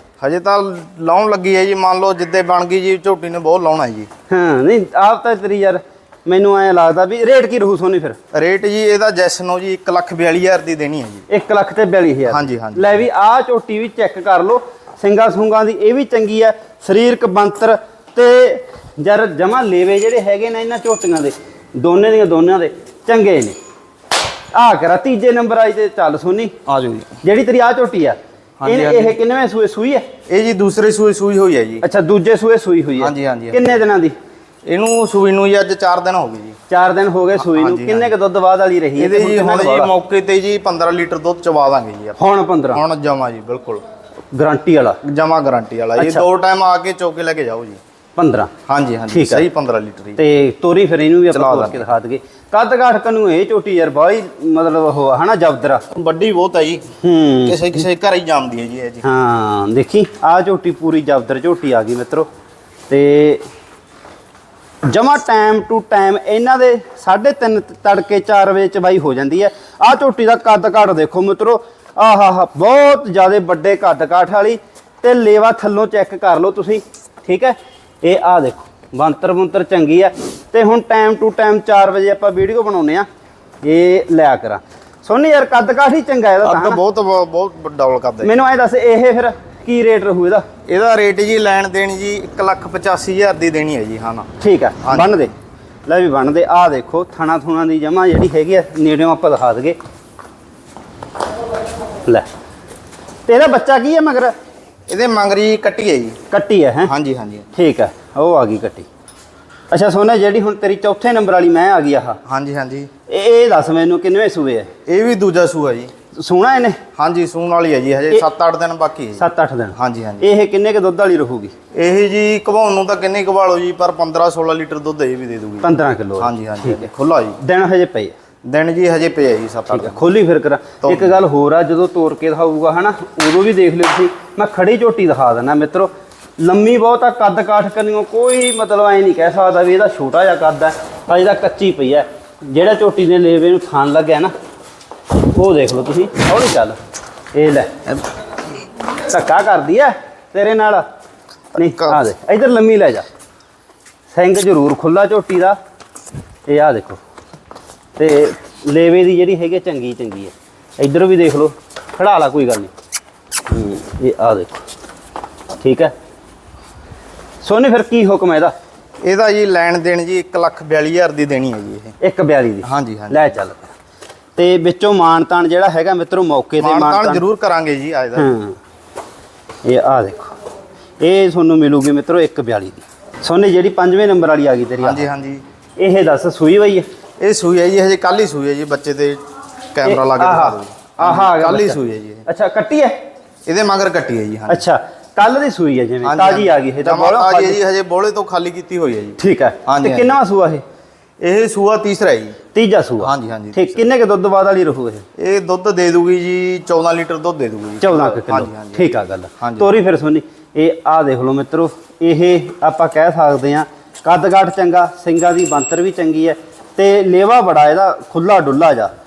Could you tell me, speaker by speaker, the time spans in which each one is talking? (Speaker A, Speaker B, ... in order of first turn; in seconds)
Speaker A: 0.2-4.1, 8.3-11.2, 12.3-13.0, 26.7-27.1, 28.6-29.2, 30.3-31.9, 33.0-33.7, 34.6-36.6, 37.4-38.1, 39.0-42.2, 42.7-43.8, 45.0-47.8, 48.7-50.2, 51.3-51.9, 55.9-56.9, 57.5-59.0, 86.4-88.3, 90.7-94.3, 94.8-95.2, 104.9-106.2, 106.9-107.5, 112.2-112.9, 114.9-115.9, 117.0-119.2, 119.8-120.3, 121.7-127.4, 128.4-130.0, 130.8-131.2, 151.6-152.0, 169.0-171.9, 172.6-173.3, 176.6-178.3, 184.8-185.4, 187.2-189.2, 189.7-192.3, 193.5-194.6, 196.0-200.2, 201.2-202.4, 203.0-203.8, 205.2-209.8
Speaker B: 4.3-8.2, 11.3-23.6, 24.5-26.6, 27.2-30.1, 31.8-34.1, 36.7-39.9, 42.2-42.8, 44.3-45.0, 46.0-46.2, 48.2-48.5, 49.1-49.5, 50.2-55.8, 57.0-57.8, 59.0-62.3, 62.9-63.5, 64.9-83.1, 83.6-86.8, 88.2-90.5, 94.4-95.3, 95.9-99.8, 103.3-104.3, 106.3-106.9, 107.5-108.9, 109.7-112.2, 113.1-114.7, 116.2-116.8, 119.2-121.5, 125.6-126.9, 127.4-128.2, 129.7-144.3, 145.2-146.8, 147.3-147.8, 149.0-150.8, 151.6-153.1, 154.1-155.6, 156.5-157.0, 158.0-162.7, 163.5-164.6, 165.6-165.9, 167.4-168.5, 172.0-173.7, 174.4-177.2, 178.2-178.6, 179.7-180.3, 181.0-185.1, 185.8-186.9, 189.8-193.0, 194.5-197.6, 199.2-200.6, 202.5-205.1, 207.8-218.9